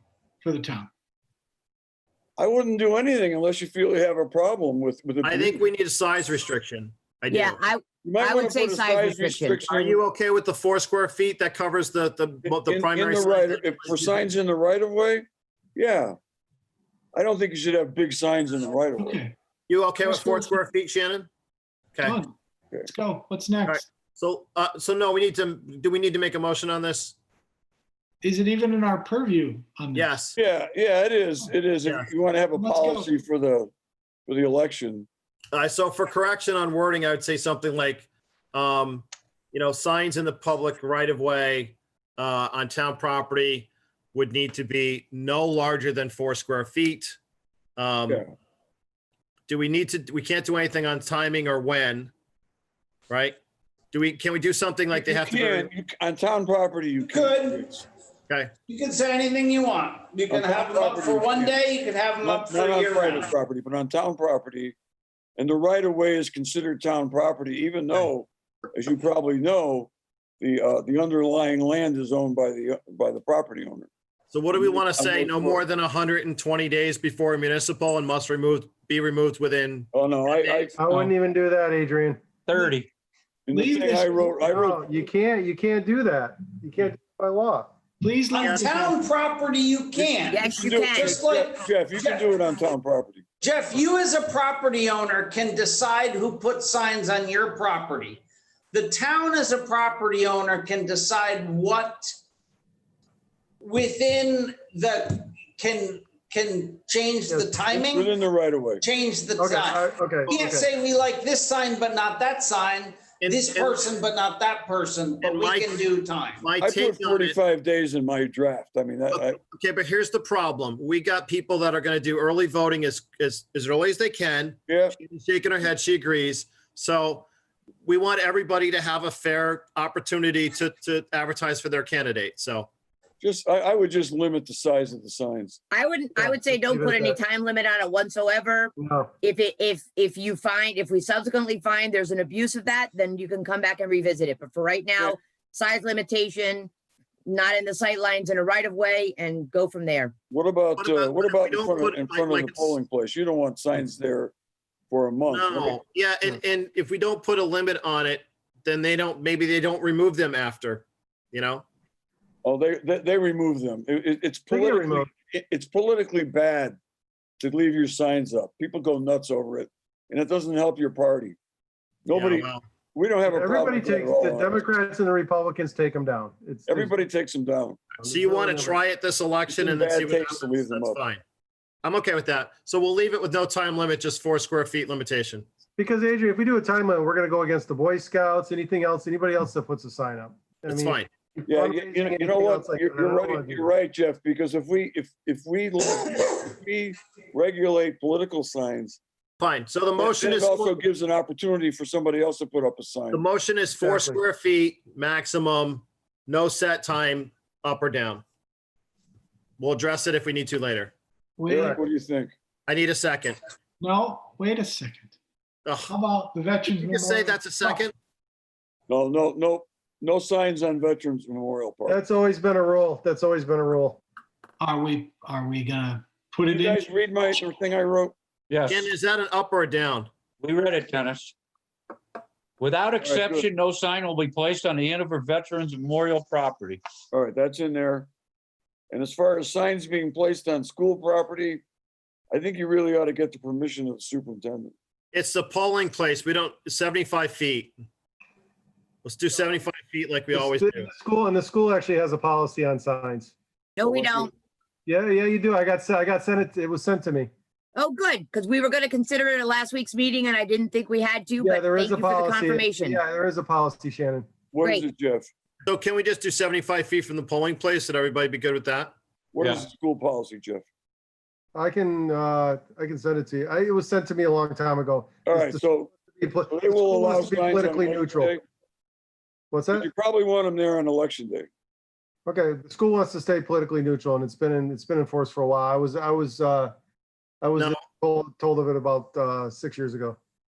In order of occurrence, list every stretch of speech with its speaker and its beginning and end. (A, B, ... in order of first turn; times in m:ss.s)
0:00.4-0:00.9 A
0:02.4-0:05.6 B
0:05.2-0:07.6 C
0:07.3-0:09.6 D
0:08.0-0:10.0 B
0:09.7-0:14.2 C
0:12.4-0:16.2 B
0:17.1-0:19.2 B
0:19.0-0:19.4 A
0:19.7-0:21.3 C
0:19.9-0:20.6 A
0:22.0-0:22.3 A
0:22.8-0:23.9 A
0:23.7-0:27.2 C
0:28.2-0:30.1 A
0:29.9-0:30.4 C
0:30.4-0:33.7 B
0:32.5-0:33.1 A
0:34.3-0:35.1 B
0:35.5-0:47.2 C
0:47.8-0:48.2 C
0:49.5-0:52.1 C
0:53.1-0:53.4 C
0:53.9-0:55.7 C
0:54.9-0:57.7 B
0:57.0-0:57.8 E
0:58.7-1:03.3 E
1:00.3-1:01.6 B
1:02.2-1:04.7 B
1:05.4-1:13.9 B
1:14.3-1:20.7 C
1:14.5-1:15.6 B
1:19.9-1:20.7 B
1:20.8-1:22.2 F
1:22.5-1:22.9 G
1:23.5-1:24.8 B
1:23.5-1:24.7 A
1:24.4-1:27.7 F
1:28.0-1:29.0 A
1:28.4-1:28.7 C
1:28.5-1:32.2 E
1:30.0-1:33.2 B
1:30.3-1:31.2 D
1:33.4-1:38.2 E
1:38.7-1:42.1 E
1:43.6-1:48.1 E
1:47.7-1:48.8 B
1:48.8-1:56.4 E
1:49.4-1:50.7 F
1:53.2-1:53.9 C
1:55.2-1:55.8 C
1:56.4-1:57.4 C
1:56.6-1:59.4 B
1:59.1-2:07.3 C
2:04.7-2:05.0 B
2:07.8-2:12.7 C
2:13.2-2:15.6 B
2:15.7-2:26.7 D
2:16.2-2:17.2 F
2:18.8-2:19.1 F
2:27.2-2:30.1 D
2:30.3-2:34.3 B
2:30.8-2:32.8 C
2:34.9-2:35.8 B
2:35.3-2:41.6 C
2:42.4-2:46.8 B
2:44.5-2:45.1 F
2:47.4-2:51.4 B
2:52.0-2:54.6 B
2:52.1-2:52.6 C
2:53.2-2:56.9 F
2:56.7-2:57.8 B
2:58.0-2:58.8 F
2:58.0-3:01.2 C
2:59.5-3:01.0 B
3:01.8-3:05.4 C
3:05.8-3:13.7 F
3:10.7-3:11.1 C
3:11.5-3:19.0 B
3:19.4-3:20.8 C
3:20.0-3:23.2 B
3:23.1-3:28.2 C
3:23.8-3:24.2 F
3:29.6-3:30.9 C
3:31.4-3:31.8 A
3:31.5-3:32.3 B
3:32.7-3:33.4 C
3:33.8-3:35.1 A
3:35.6-3:35.9 C
3:35.8-3:37.9 A
3:36.7-3:37.9 C
3:38.9-3:42.0 B
3:41.9-3:44.0 F
3:44.6-3:46.8 A
3:46.4-3:48.1 B
3:48.5-3:48.9 G
3:48.6-3:50.1 C
3:50.4-3:51.3 G
3:52.6-3:56.8 G
3:53.0-3:53.5 B
3:57.1-3:58.1 B
3:58.9-4:01.6 B
4:02.3-4:04.7 B
4:05.1-4:07.8 C
4:09.0-4:10.9 C
4:10.3-4:13.3 F
4:13.8-4:14.3 D
4:13.8-4:14.1 B
4:14.8-4:17.3 F
4:17.8-4:23.0 D
4:21.4-4:24.3 F
4:24.5-4:25.3 B
4:25.6-4:28.9 C
4:29.3-4:30.6 B
4:31.5-4:38.3 F
4:35.2-4:35.9 B
4:36.5-4:38.4 B
4:39.5-4:39.9 F
4:39.7-4:41.5 B
4:42.2-4:46.7 F
4:47.4-4:50.2 F